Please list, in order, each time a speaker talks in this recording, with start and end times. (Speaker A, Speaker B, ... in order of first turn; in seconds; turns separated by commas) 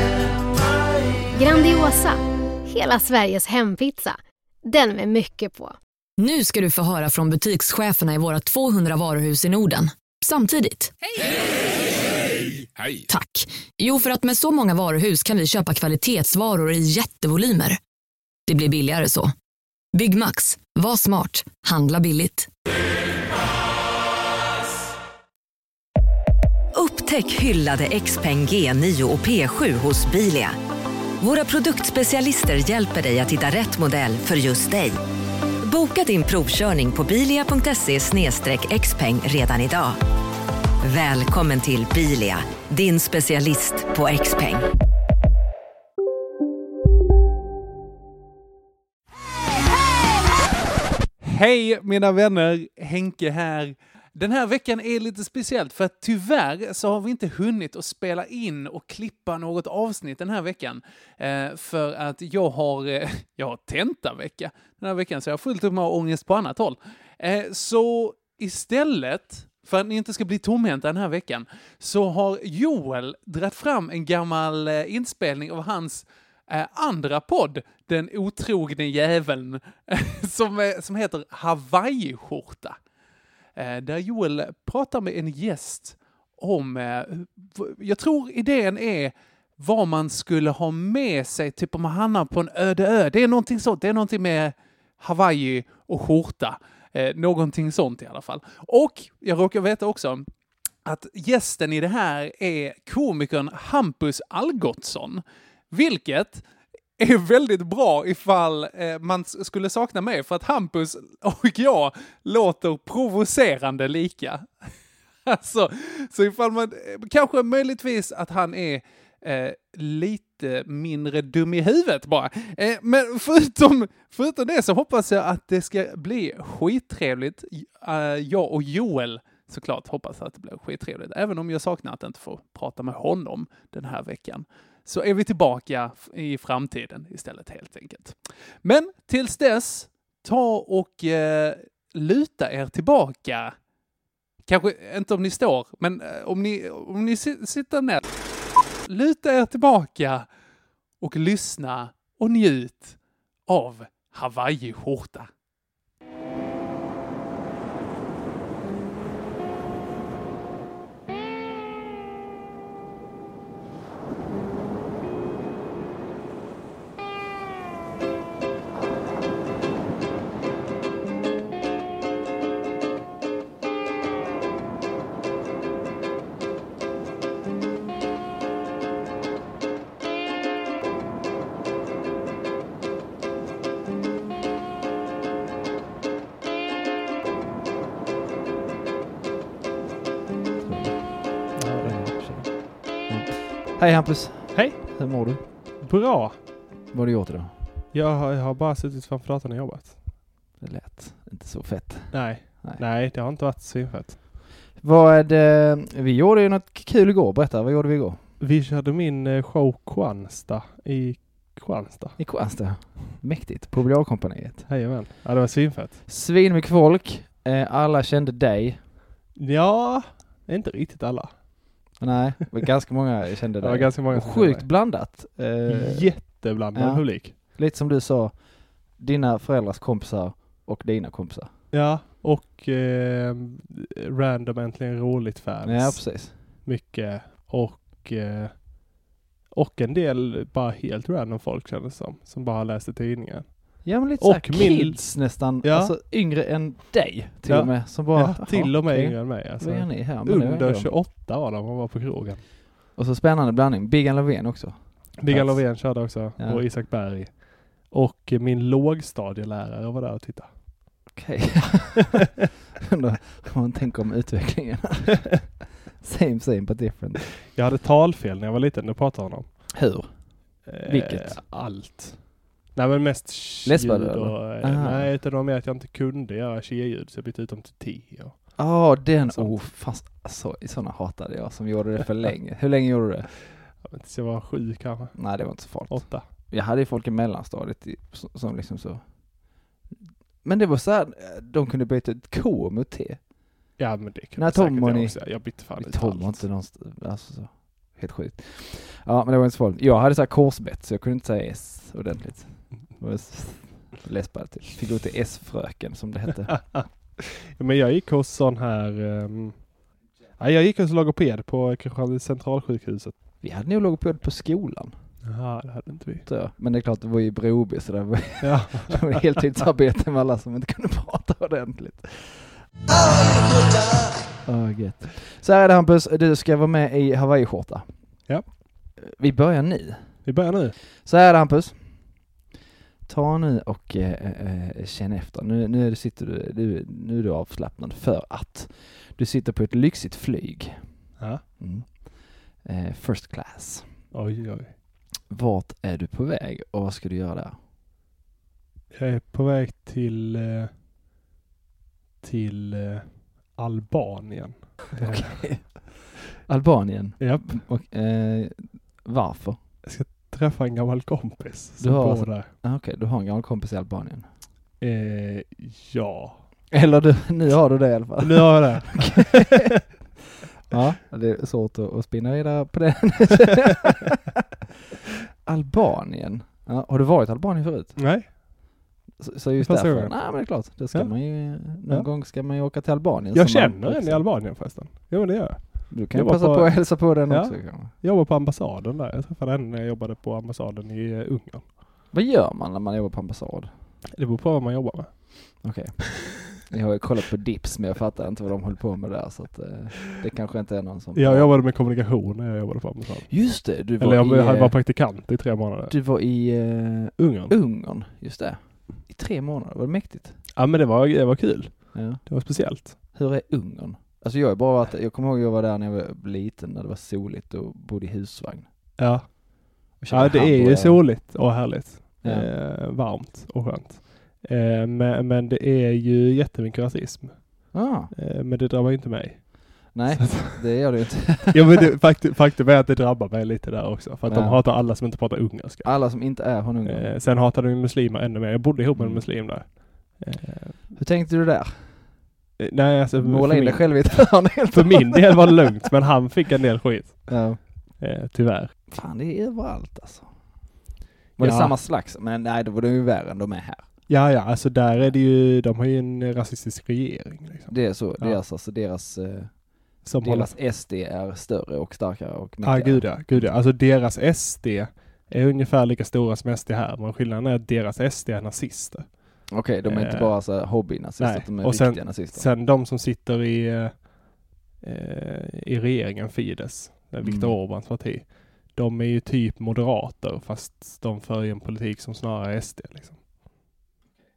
Speaker A: 1.4-5.8, Speaker B: 6.2-10.9, Speaker B: 13.1-17.8, Speaker B: 18.5-19.3, Speaker B: 19.9-22.5, Speaker C: 26.7-30.6, Speaker C: 31.2-35.0, Speaker C: 35.6-40.0, Speaker C: 40.8-44.6, Speaker D: 51.2-82.8, Speaker D: 83.5-100.2, Speaker D: 100.8-106.4, Speaker D: 107.0-114.5, Speaker D: 115.2-143.5, Speaker D: 144.4-148.0, Speaker D: 148.9-150.3, Speaker D: 151.0-155.3, Speaker E: 190.6-192.1, Speaker F: 191.5-192.5, Speaker E: 193.1-195.4, Speaker F: 194.5-194.8, Speaker F: 195.8-196.4, Speaker E: 196.9-197.5, Speaker F: 197.9-200.0, Speaker E: 200.6-202.8, Speaker F: 202.1-204.2, Speaker E: 204.8-208.2, Speaker F: 208.4-212.2, Speaker E: 212.2-214.7, Speaker F: 214.7-216.0, Speaker E: 216.1-218.8, Speaker F: 219.3-221.4, Speaker E: 222.0-226.1, Speaker F: 223.6-224.8, Speaker F: 225.7-227.3, Speaker E: 226.7-228.4, Speaker E: 228.9-231.5, Speaker F: 231.7-238.7, Speaker E: 235.6-236.3, Speaker F: 239.5-245.9, Speaker E: 243.8-250.9, Speaker F: 247.5-252.4, Speaker E: 252.9-256.6, Speaker F: 255.2-260.5, Speaker E: 261.1-262.2, Speaker E: 262.8-265.3, Speaker E: 266.0-267.3, Speaker F: 267.4-269.5, Speaker E: 269.7-270.1, Speaker F: 270.6-278.6, Speaker E: 270.9-271.4, Speaker E: 273.6-275.1, Speaker E: 278.6-283.3, Speaker F: 279.2-279.5, Speaker F: 283.8-285.2, Speaker E: 285.1-289.0, Speaker F: 285.8-286.2, Speaker E: 290.4-293.2, Speaker F: 293.8-296.4, Speaker E: 294.4-306.5, Speaker F: 306.5-309.6, Speaker F: 310.4-313.1, Speaker E: 313.4-314.9, Speaker F: 315.2-316.3, Speaker E: 316.2-322.5, Speaker F: 318.4-319.4, Speaker E: 324.4-327.9, Speaker E: 329.0-330.2, Speaker F: 330.2-330.8, Speaker E: 331.0-331.8, Speaker E: 333.1-340.8, Speaker E: 341.6-342.1, Speaker E: 342.6-343.9, Speaker F: 344.1-344.7, Speaker E: 345.3-347.5, Speaker F: 348.9-350.7, Speaker F: 352.2-355.8, Speaker E: 355.0-359.6, Speaker F: 357.2-357.6, Speaker F: 359.8-362.5, Speaker E: 361.8-364.2, Speaker F: 364.8-366.4, Speaker E: 366.7-369.7, Speaker F: 368.2-369.7, Speaker E: 370.7-374.2, Speaker E: 375.4-378.0, Speaker F: 377.9-378.3, Speaker E: 379.2-384.2, Speaker F: 379.6-381.1, Speaker F: 383.3-391.7, Speaker E: 385.9-387.9, Speaker E: 392.1-393.7, Speaker F: 394.1-395.6, Speaker E: 395.6-401.5, Speaker F: 401.1-405.9, Speaker E: 403.3-404.8, Speaker E: 405.9-410.4, Speaker F: 407.2-407.5, Speaker F: 410.6-413.0, Speaker E: 411.9-412.2, Speaker E: 413.1-418.6, Speaker F: 419.0-430.6, Speaker E: 420.0-421.1, Speaker E: 422.2-422.5, Speaker E: 427.7-428.1, Speaker E: 429.9-431.9, Speaker F: 431.5-435.9, Speaker E: 434.2-434.6, Speaker E: 435.8-437.1, Speaker F: 436.8-440.8, Speaker E: 439.0-439.2, Speaker E: 440.9-441.9, Speaker F: 442.6-447.4, Speaker E: 443.2-445.6, Speaker E: 447.3-447.6, Speaker F: 448.0-448.7, Speaker E: 448.9-450.3, Speaker F: 451.4-451.8, Speaker E: 451.4-453.9, Speaker F: 454.1-458.4, Speaker E: 457.7-459.5, Speaker F: 460.0-460.5, Speaker E: 460.2-463.5, Speaker F: 462.6-470.3, Speaker E: 469.5-472.5, Speaker F: 471.2-474.1, Speaker F: 474.8-483.2, Speaker E: 477.2-477.6